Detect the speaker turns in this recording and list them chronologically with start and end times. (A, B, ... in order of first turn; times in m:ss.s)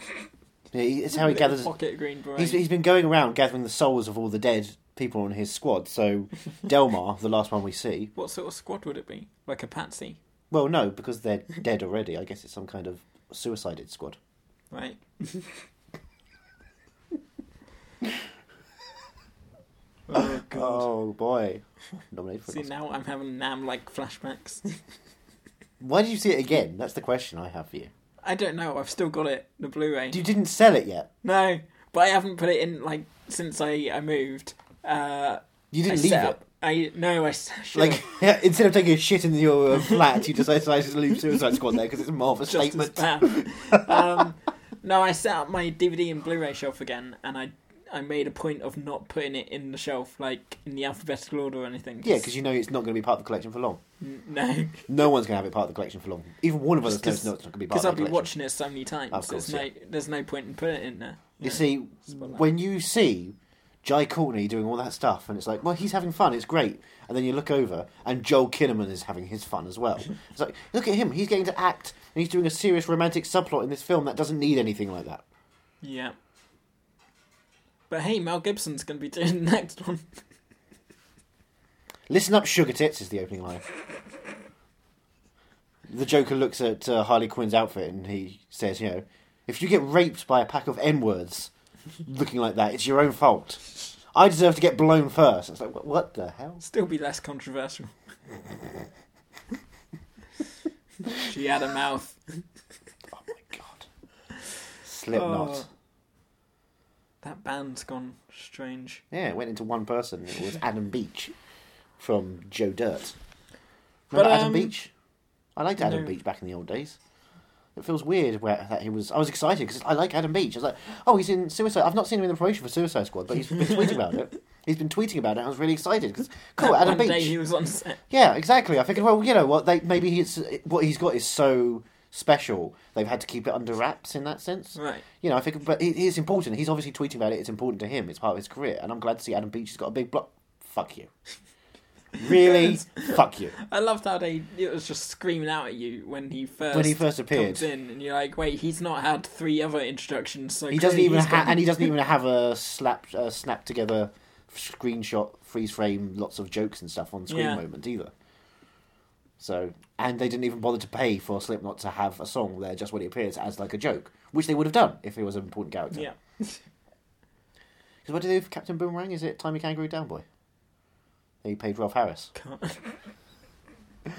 0:00.7-0:01.7 A
0:01.1-0:02.6 B
0:02.4-0:08.1 A
0:08.2-0:10.2 B
0:10.5-0:14.2 A
0:14.7-0:15.5 B
0:20.1-0:20.9 B
0:20.1-0:22.7 A
0:22.5-0:24.8 B
0:25.8-0:27.9 A
0:28.2-0:30.2 B
0:30.1-0:31.1 A
0:31.2-0:38.2 B
0:35.7-0:36.4 A
0:37.7-0:44.2 A
0:42.5-0:52.3 B
0:52.0-0:53.8 A
0:54.0-0:54.9 B
0:54.9-0:58.3 A
0:56.8-1:01.6 B
0:59.1-0:59.7 A
1:01.4-1:15.2 A
1:15.8-1:16.2 B
1:17.9-1:20.2 B
1:22.1-1:23.6 A
1:25.9-1:31.5 A
1:32.0-1:36.7 A
1:36.6-1:37.9 B
1:41.1-1:42.2 B
1:43.1-1:43.9 A
1:44.8-1:45.6 A
1:45.1-1:45.7 B
1:47.2-1:49.0 B
1:49.1-1:51.3 A
1:52.0-1:53.1 A
1:54.1-1:54.9 A
1:54.1-1:54.7 B
1:55.6-1:57.0 A
1:55.8-1:56.1 B
1:57.8-2:07.3 A
2:06.6-2:08.0 B
2:08.1-2:21.1 A
2:14.7-2:15.0 B
2:22.2-2:23.6 A
2:22.2-2:31.9 B
2:26.7-2:27.6 A
2:30.7-2:38.1 A
2:37.3-2:37.6 B
2:39.4-2:46.1 A
2:45.9-2:46.6 B
2:48.0-2:50.2 A
2:51.4-2:52.3 A
2:52.3-2:53.0 B